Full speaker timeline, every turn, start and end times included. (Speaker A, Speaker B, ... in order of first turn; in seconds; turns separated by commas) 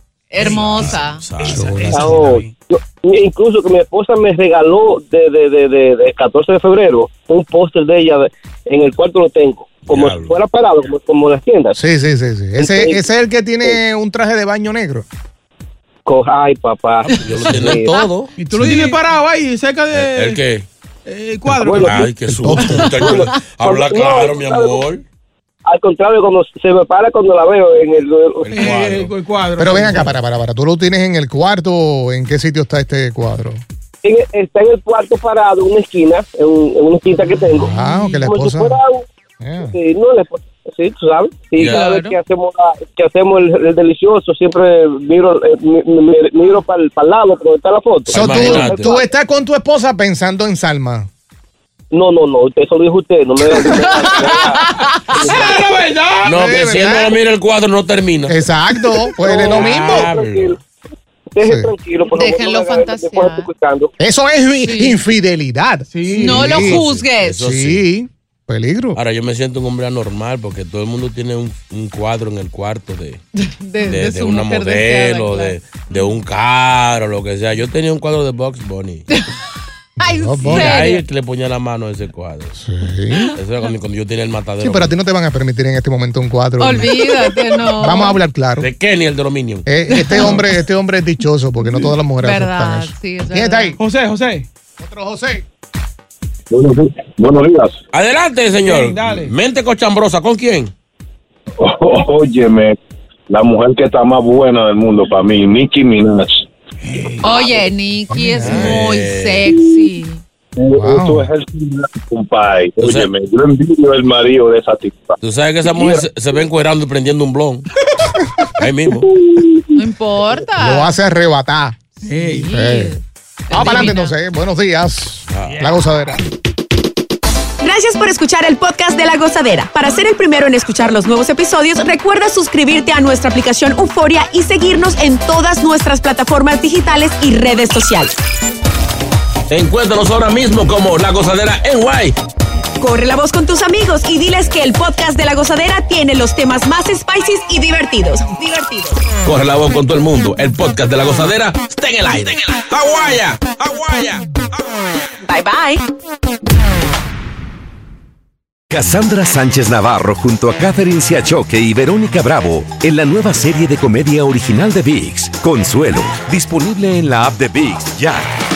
Speaker A: 0.3-1.2, Speaker B: 0.4-2.0, Speaker C: 0.4-2.5, Speaker D: 1.5-2.4, Speaker E: 1.9-11.8, Speaker B: 9.8-10.3, Speaker D: 11.7-15.1, Speaker E: 12.6-13.0, Speaker E: 16.1-17.9, Speaker A: 17.1-18.1, Speaker B: 17.1-18.3, Speaker C: 18.4-20.4, Speaker D: 18.5-18.8, Speaker B: 19.9-20.6, Speaker C: 21.1-22.0, Speaker E: 21.6-22.0, Speaker B: 21.8-25.0, Speaker D: 22.1-23.2, Speaker A: 22.6-23.4, Speaker E: 23.0-24.8, Speaker E: 25.6-28.7, Speaker B: 28.4-29.1, Speaker C: 28.5-30.2, Speaker D: 29.6-33.6, Speaker E: 34.0-39.0, Speaker C: 37.2-37.7, Speaker D: 37.5-38.8, Speaker A: 37.6-38.2, Speaker D: 39.4-39.7, Speaker E: 39.7-49.0, Speaker B: 41.6-41.9, Speaker A: 41.6-42.2, Speaker B: 48.0-49.0, Speaker D: 48.1-51.1, Speaker E: 51.9-55.6, Speaker A: 53.6-55.3, Speaker C: 55.2-56.9, Speaker B: 56.2-58.4, Speaker D: 56.3-57.1, Speaker D: 58.3-60.1, Speaker E: 59.2-60.6, Speaker B: 59.3-60.6, Speaker E: 61.4-63.9, Speaker D: 61.4-61.7, Speaker A: 62.1-63.5, Speaker D: 64.0-69.0, Speaker A: 64.6-65.0, Speaker C: 65.9-66.7, Speaker A: 66.1-67.4, Speaker B: 66.3-67.8, Speaker B: 68.9-73.2, Speaker A: 73.4-76.1, Speaker B: 73.8-79.1, Speaker D: 80.0-80.8, Speaker A: 80.0-81.0, Speaker B: 80.4-82.5, Speaker D: 82.5-83.3, Speaker B: 83.3-85.0, Speaker D: 84.6-88.7, Speaker A: 86.6-88.2, Speaker B: 88.6-89.7, Speaker D: 89.7-93.8, Speaker A: 89.9-90.5, Speaker A: 92.2-93.8, Speaker C: 93.8-94.5, Speaker D: 94.8-95.4, Speaker F: 96.5-97.8, Speaker B: 97.9-100.7, Speaker C: 98.6-99.3, Speaker F: 101.6-102.8, Speaker F: 103.3-106.4, Speaker C: 106.8-107.6, Speaker A: 107.2-110.2, Speaker D: 108.1-108.8, Speaker B: 108.4-109.5, Speaker F: 110.6-115.2, Speaker D: 110.8-111.3, Speaker B: 112.8-113.1, Speaker B: 115.2-117.7, Speaker B: 118.6-119.1, Speaker A: 119.7-121.0, Speaker D: 120.5-121.8, Speaker C: 122.0-122.6, Speaker A: 122.1-124.2, Speaker D: 122.5-123.0, Speaker D: 123.5-126.2, Speaker B: 125.3-125.6, Speaker C: 125.5-125.8, Speaker G: 127.6-138.1, Speaker B: 139.5-142.2, Speaker G: 142.8-149.1, Speaker B: 149.2-154.5, Speaker G: 155.2-155.8, Speaker H: 158.7-168.3